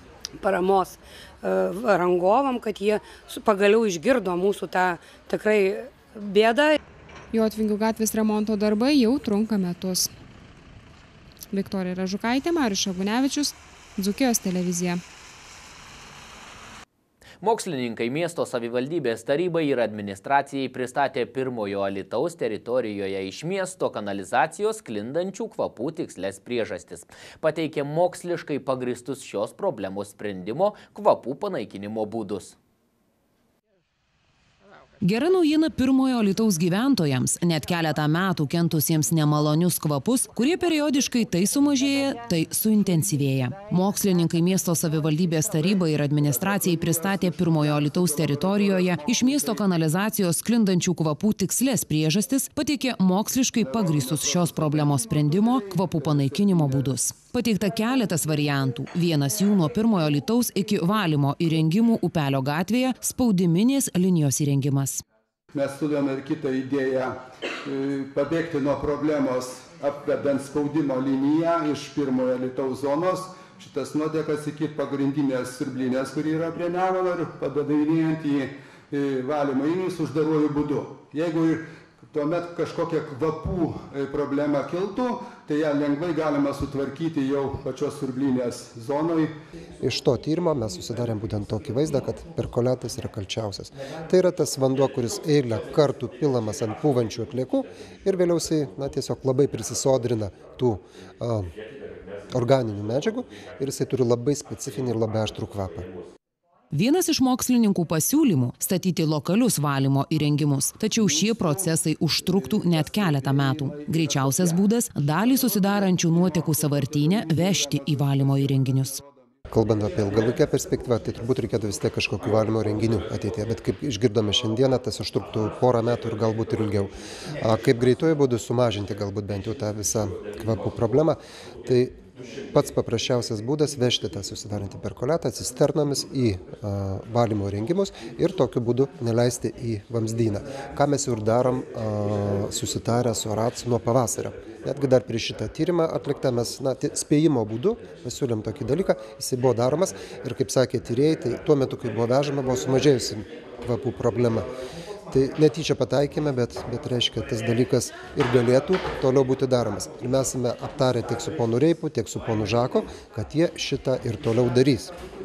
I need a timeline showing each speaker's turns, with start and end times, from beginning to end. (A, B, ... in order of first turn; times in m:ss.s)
0:00.4-0:06.8 A
0:07.3-0:10.1 B
0:11.5-0:15.0 B
0:17.4-0:32.6 C
0:35.0-1:05.0 D
0:46.8-0:49.7 E
0:54.0-0:54.9 E
1:05.5-1:29.3 E
1:29.8-1:41.5 F
1:42.3-1:45.9 F
1:46.7-1:59.0 D
1:51.0-1:51.7 E
1:52.2-1:54.6 E
1:55.2-1:59.4 E
1:59.5-2:12.0 F
2:12.5-2:34.5 F
2:35.1-2:44.9 F